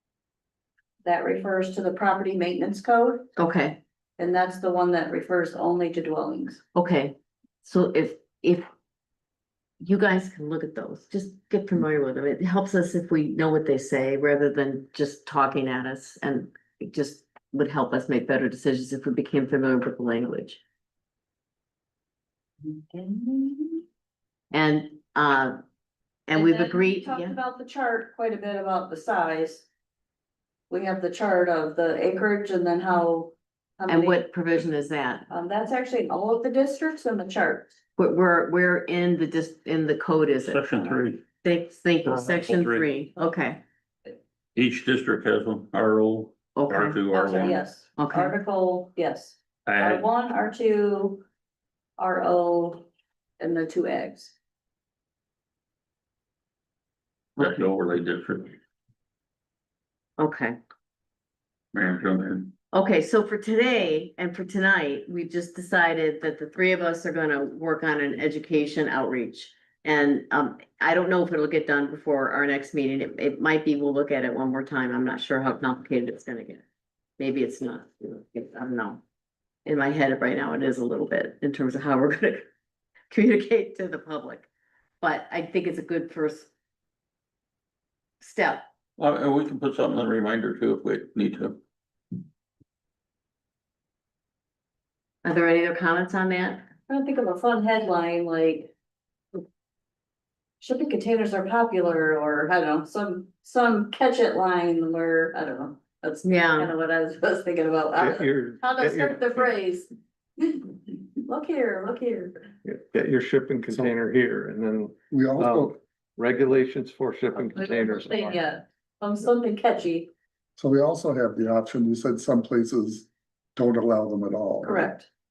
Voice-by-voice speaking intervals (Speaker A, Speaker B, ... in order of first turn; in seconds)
Speaker A: 1.0-3.3, 4.2-6.6, 22.6-23.8, 26.3-29.6, 30.7-34.2, 35.3-37.8, 47.1-51.2, 52.0-52.9, 53.4-54.3, 96.9-98.7, 100.6-112.5, 117.5-120.1, 124.7-125.1
Speaker B: 3.4-3.8, 6.8-8.7, 9.8-20.6, 24.5-25.6, 26.3-27.4, 33.9-35.3, 38.0-43.6, 46.5-47.0, 48.0-48.3, 60.2-60.6, 62.7-76.6, 77.2-79.0, 79.7-82.5, 83.1-84.5, 85.0-86.5, 88.2-88.6, 95.2-96.7, 106.2-106.7
Speaker C: 40.4-41.2, 42.1-42.9, 44.5-47.5, 49.7-50.0, 57.4-58.6, 61.7-62.5, 89.0-91.6
Speaker D: 107.9-109.5, 112.7-118.4
Speaker E: 115.1-115.8, 120.6-124.9